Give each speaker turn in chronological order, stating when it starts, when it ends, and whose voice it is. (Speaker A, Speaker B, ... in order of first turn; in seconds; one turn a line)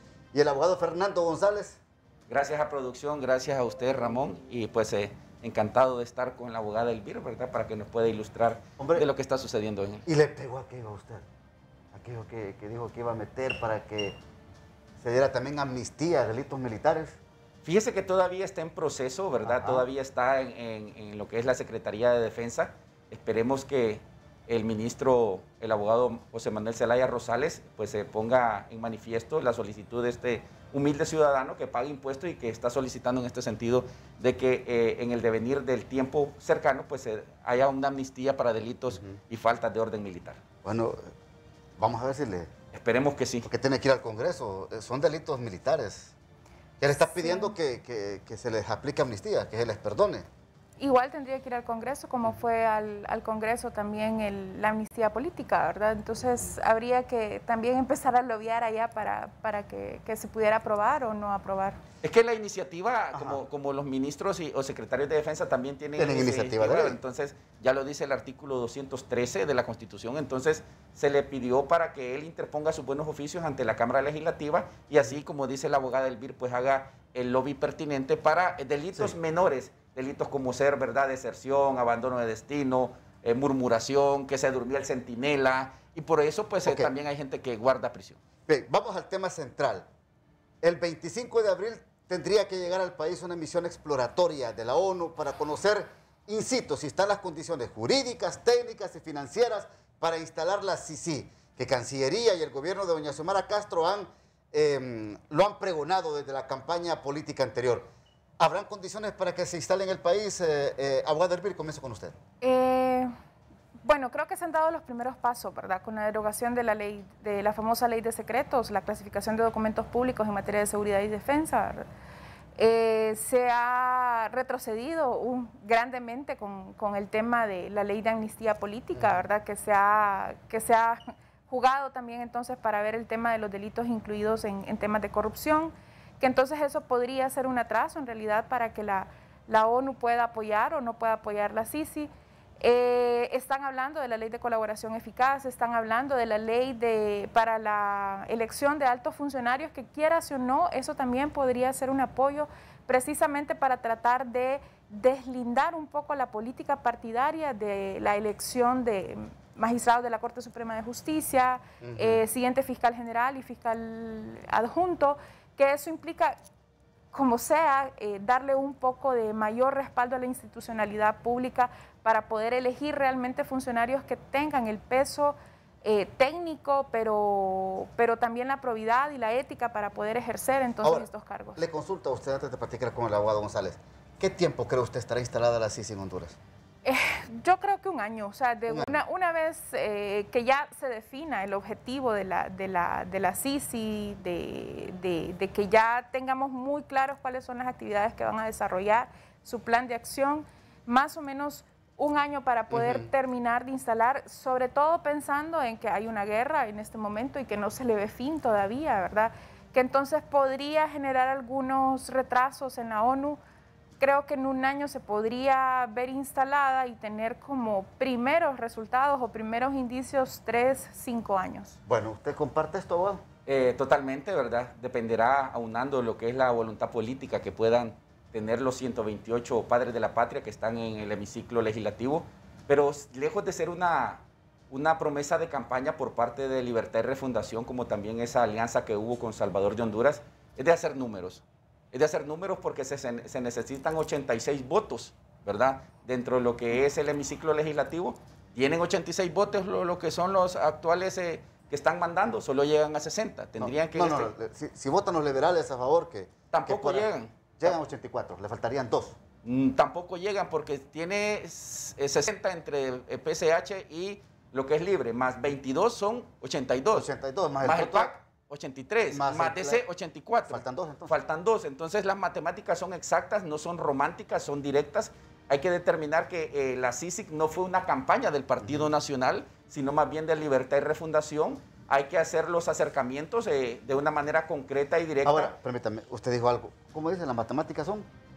Speaker A: 0.3-1.8
Speaker B: 2.3-10.1
Speaker A: 8.8-9.1
Speaker A: 10.1-11.2
Speaker A: 11.9-14.2
Speaker A: 15.0-17.2
Speaker B: 17.6-40.4
Speaker A: 19.4-19.9
Speaker A: 40.6-41.1
Speaker A: 41.8-42.5
Speaker B: 42.7-43.5
Speaker A: 43.4-46.1
Speaker A: 46.8-50.2
Speaker C: 47.1-47.5
Speaker C: 50.8-61.8
Speaker B: 62.0-88.2
Speaker A: 63.1-63.4
Speaker A: 66.0-67.0
Speaker A: 86.6-86.9
Speaker A: 88.5-89.9
Speaker A: 90.6-107.9
Speaker A: 108.4-112.1
Speaker C: 112.4-113.1
Speaker C: 113.8-121.8
Speaker C: 122.5-142.1
Speaker A: 128.9-129.2
Speaker C: 142.6-166.4
Speaker A: 161.8-162.2
Speaker C: 167.1-181.6
Speaker A: 180.8-186.4
Speaker C: 186.8-213.4
Speaker A: 188.7-188.9
Speaker A: 202.7-203.1
Speaker C: 214.0-221.7
Speaker A: 221.9-223.2
Speaker B: 223.4-254.3
Speaker A: 253.6-259.2
Speaker B: 256.5-257.8
Speaker B: 259.4-267.1
Speaker A: 266.9-268.1
Speaker B: 267.6-285.5
Speaker A: 269.1-269.8
Speaker A: 270.5-271.1
Speaker A: 278.6-278.9
Speaker A: 285.2-288.1